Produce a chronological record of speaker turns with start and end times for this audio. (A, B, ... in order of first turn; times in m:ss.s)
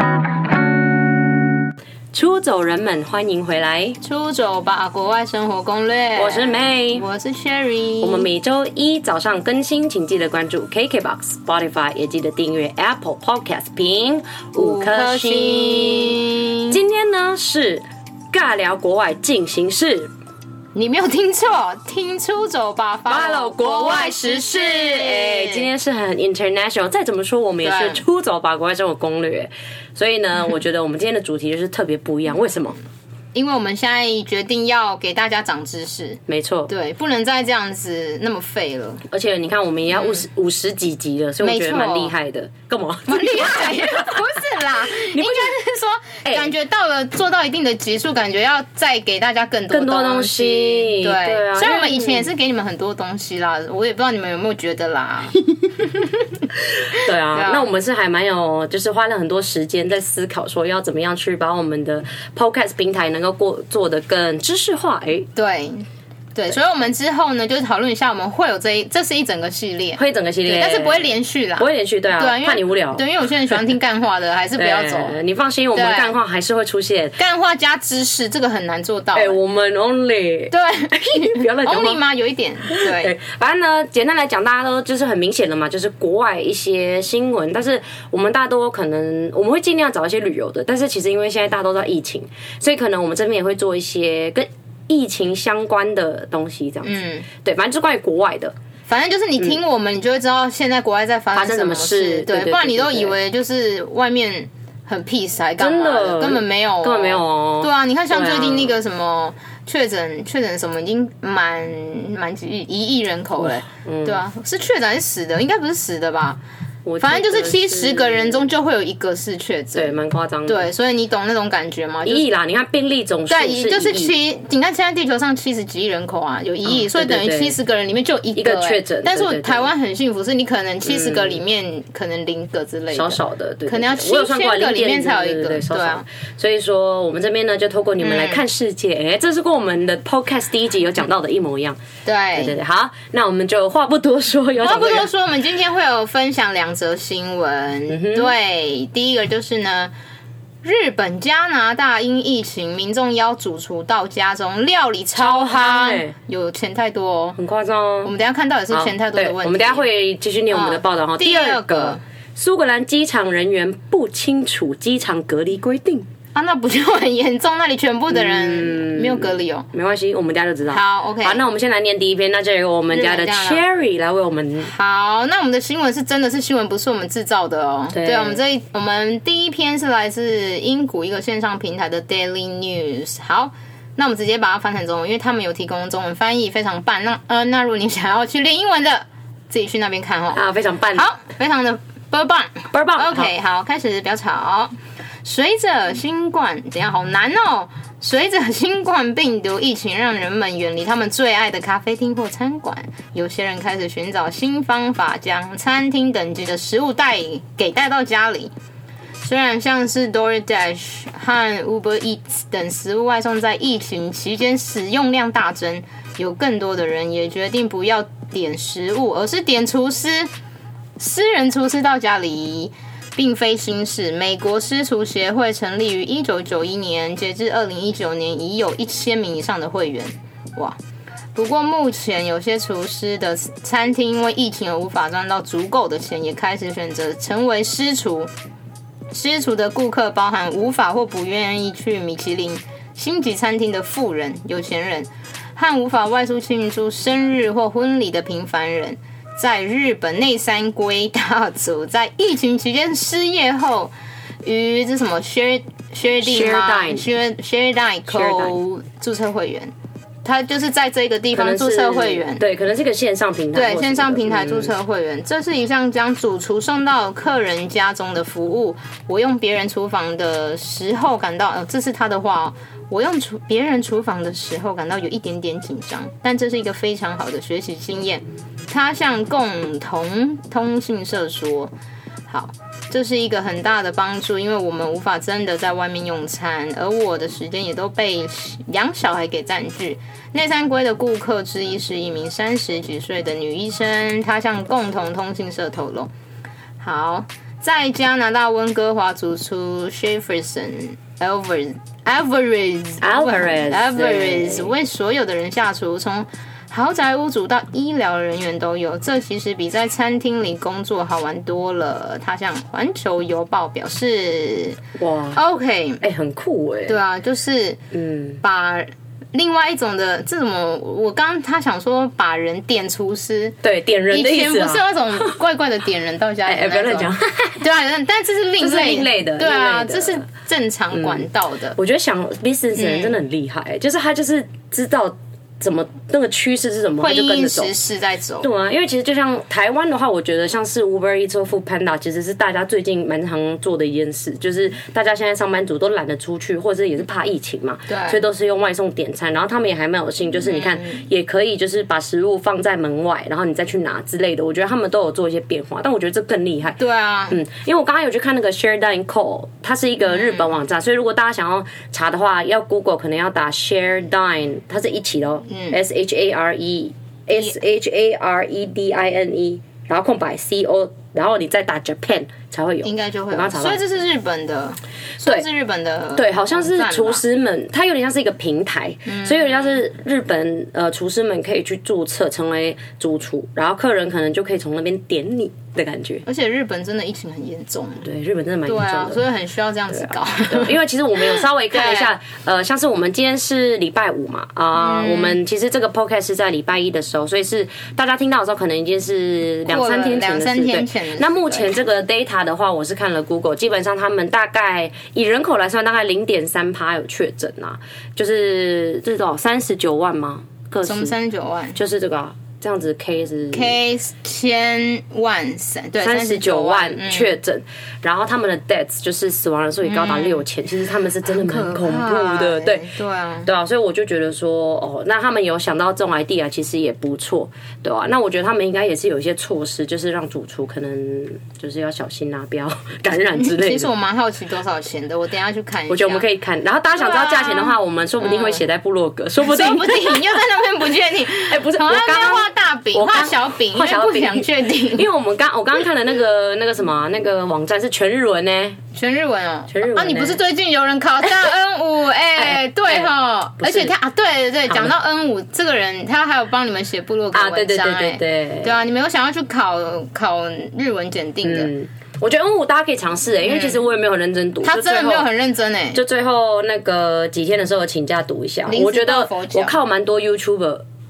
0:02.1-0:04.0 A
0:04.0-0:08.3 B
0:06.2-0:07.1 A
0:08.0-0:20.1 A
0:14.6-0:16.8 B
0:20.8-0:25.7 B
0:23.1-0:32.8 A
0:27.6-0:28.0 B
0:33.3-0:39.0 B
0:36.3-0:36.7 A
0:39.1-0:45.6 A
0:40.0-0:40.2 B
0:41.4-0:42.1 B
0:43.1-0:57.7 B
0:46.2-0:46.5 A
0:49.7-0:52.3 A
0:56.9-1:05.3 A
1:05.4-1:15.2 B
1:10.0-1:13.0 A
1:14.6-1:17.2 A
1:15.7-1:16.2 B
1:17.2-1:19.4 B
1:19.1-1:22.0 A
1:20.5-1:23.2 B
1:22.7-1:38.6 A
1:36.8-1:37.3 B
1:38.9-1:56.4 B
1:41.3-1:43.2 A
1:45.6-1:48.8 A
1:53.8-1:54.2 A
1:56.8-1:58.5 A
1:57.0-2:00.0 B
1:59.7-2:00.7 A
2:00.5-2:02.3 B
2:02.0-2:04.2 A
2:03.3-2:16.0 B
2:06.6-2:07.6 A
2:08.4-2:09.7 A
2:10.9-2:11.4 A
2:12.9-2:21.8 A
2:18.0-2:18.4 B
2:22.0-2:22.6 B
2:22.4-2:25.1 A
2:24.6-2:29.9 B
2:27.9-2:28.3 A
2:30.6-2:37.4 B
2:35.2-2:36.1 A
2:37.4-2:38.1 A
2:38.0-2:39.9 B
2:38.7-2:46.1 A
2:40.5-2:42.0 B
2:46.4-2:49.7 B
2:48.1-2:54.7 A
2:50.7-2:51.4 B
2:52.9-2:53.6 B
2:54.6-3:10.4 B
2:57.9-2:58.4 A
3:10.3-3:11.1 A
3:10.9-3:28.5 B
3:12.7-3:13.3 A
3:29.2-3:40.3 B
3:41.0-3:50.8 B
3:51.4-3:58.3 B
3:59.1-4:13.9 B
4:14.4-4:19.7 B
4:16.2-4:17.0 A
4:18.1-4:18.6 A
4:20.2-4:22.4 B
4:21.3-4:24.7 A
4:23.5-4:41.7 B
4:42.3-4:56.1 B
4:56.8-5:14.8 B
5:03.0-5:04.7 A
5:15.0-5:15.4 A
5:15.4-5:16.0 B
5:16.0-5:17.0 A
5:16.9-5:17.8 B
5:17.9-5:18.4 A
5:18.4-5:23.6 B
5:23.6-5:25.3 A
5:24.1-5:31.8 B
5:26.5-5:27.6 A
5:28.6-5:30.2 A
5:30.9-5:37.7 A
5:32.8-5:33.2 B
5:37.0-5:38.5 B
5:38.4-5:56.8 A
5:47.9-5:48.2 B
5:50.5-5:51.0 B
5:56.8-5:57.4 B
5:57.3-6:13.8 A
6:00.1-6:00.5 B
6:05.5-6:05.8 B
6:12.8-6:17.2 B
6:15.2-6:15.5 A
6:16.2-6:26.2 A
6:19.1-6:19.8 B
6:26.2-6:28.1 B
6:28.0-6:29.2 A
6:28.7-6:32.1 B
6:29.9-6:51.2 A
6:34.8-6:35.4 B
6:39.7-6:41.8 B
6:50.8-6:51.8 B
6:51.8-6:53.8 A
6:53.5-6:57.4 B
6:56.0-7:02.8 A
6:59.8-7:00.5 B
7:01.3-7:03.5 B
7:03.4-7:13.9 A
7:13.3-7:16.3 B
7:15.9-7:20.4 A
7:16.9-7:18.6 B
7:19.4-7:25.1 B
7:21.4-7:28.8 A
7:28.9-7:41.7 B
7:29.7-7:30.4 A
7:32.4-7:33.9 A
7:34.7-7:34.9 A
7:37.3-7:38.8 A
7:41.4-7:45.3 A
7:43.4-7:43.8 B
7:44.6-7:46.0 B
7:45.9-7:50.8 A
7:48.7-7:49.8 B